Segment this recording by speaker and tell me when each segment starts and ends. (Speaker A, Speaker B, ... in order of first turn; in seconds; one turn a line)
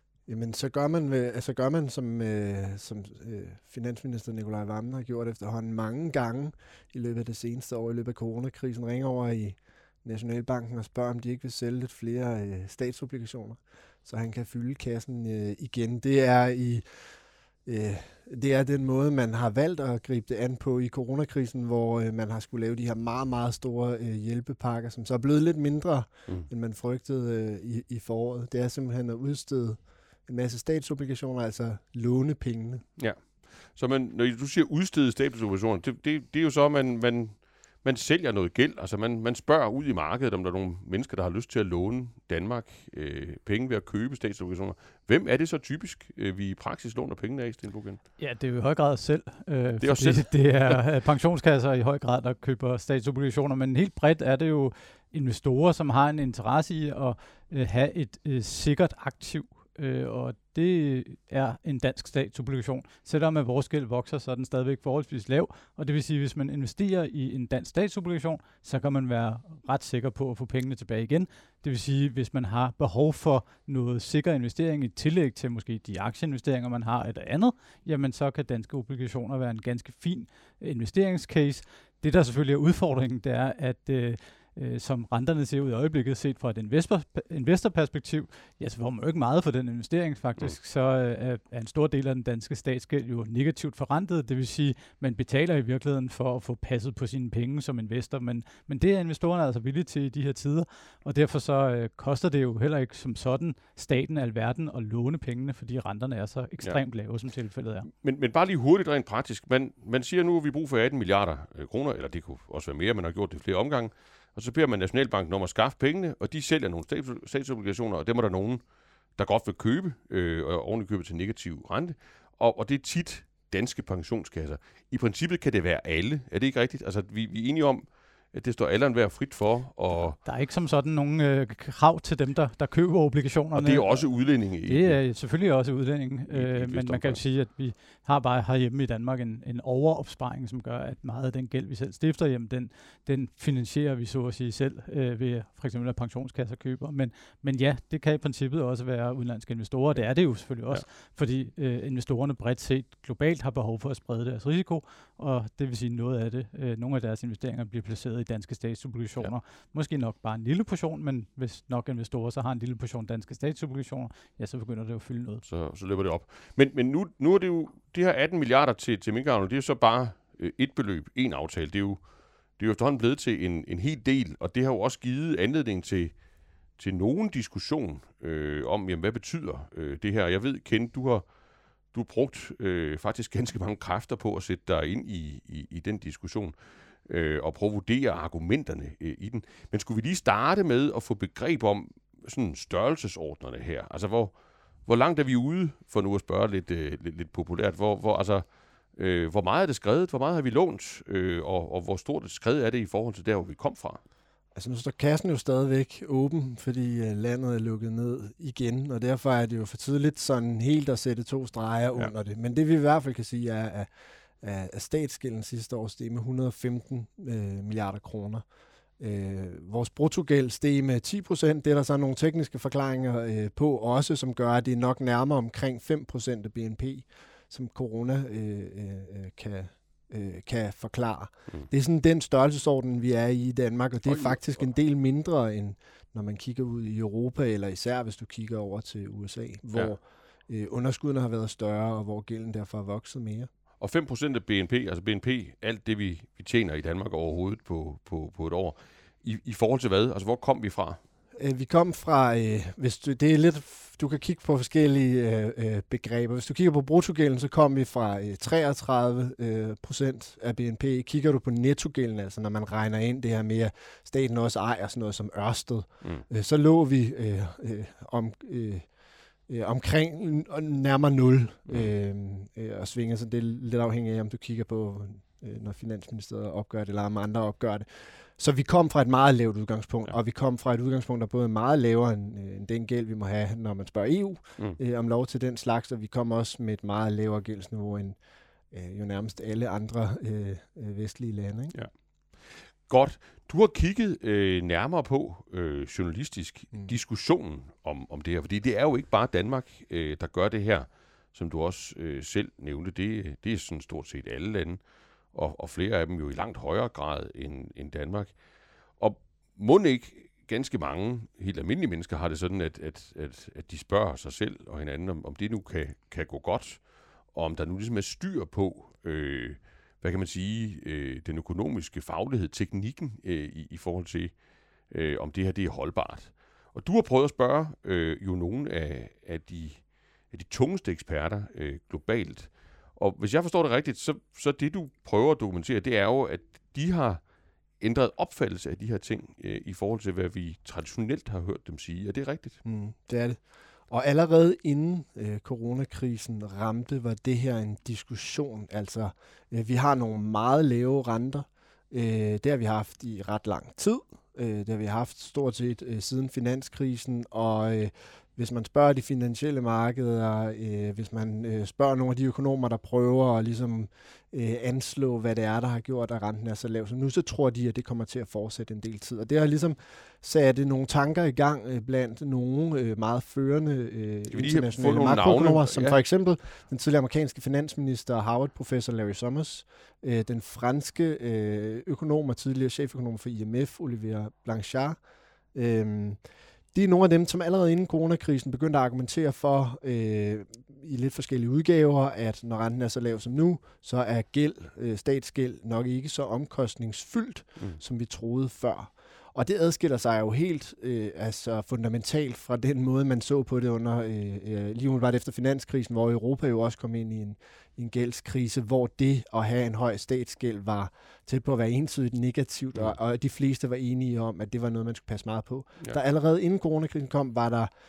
Speaker A: 0.3-16.8
Speaker A: 17.7-32.8
Speaker B: 33.0-48.0
Speaker C: 48.2-107.9
Speaker B: 49.8-50.8
Speaker B: 107.9-118.6
Speaker B: 119.2-130.2
Speaker C: 130.2-134.1
Speaker B: 133.6-135.0
Speaker C: 134.7-165.4
Speaker B: 136.3-137.2
Speaker B: 165.5-172.0
Speaker B: 172.6-176.2
Speaker B: 176.8-181.3
Speaker B: 181.9-204.0
Speaker A: 204.6-213.9
Speaker A: 214.4-218.4
Speaker A: 219.0-243.5
Speaker B: 234.1-234.4
Speaker B: 243.8-251.0
Speaker A: 251.4-268.9
Speaker A: 269.5-288.2
Speaker A: 288.7-291.7
Speaker B: 292.5-304.8
Speaker B: 305.3-308.4
Speaker B: 309.0-324.4
Speaker B: 324.9-337.2
Speaker B: 337.8-342.6
Speaker A: 342.6-385.0
Speaker B: 374.3-376.0
Speaker A: 385.5-386.2
Speaker A: 386.7-417.7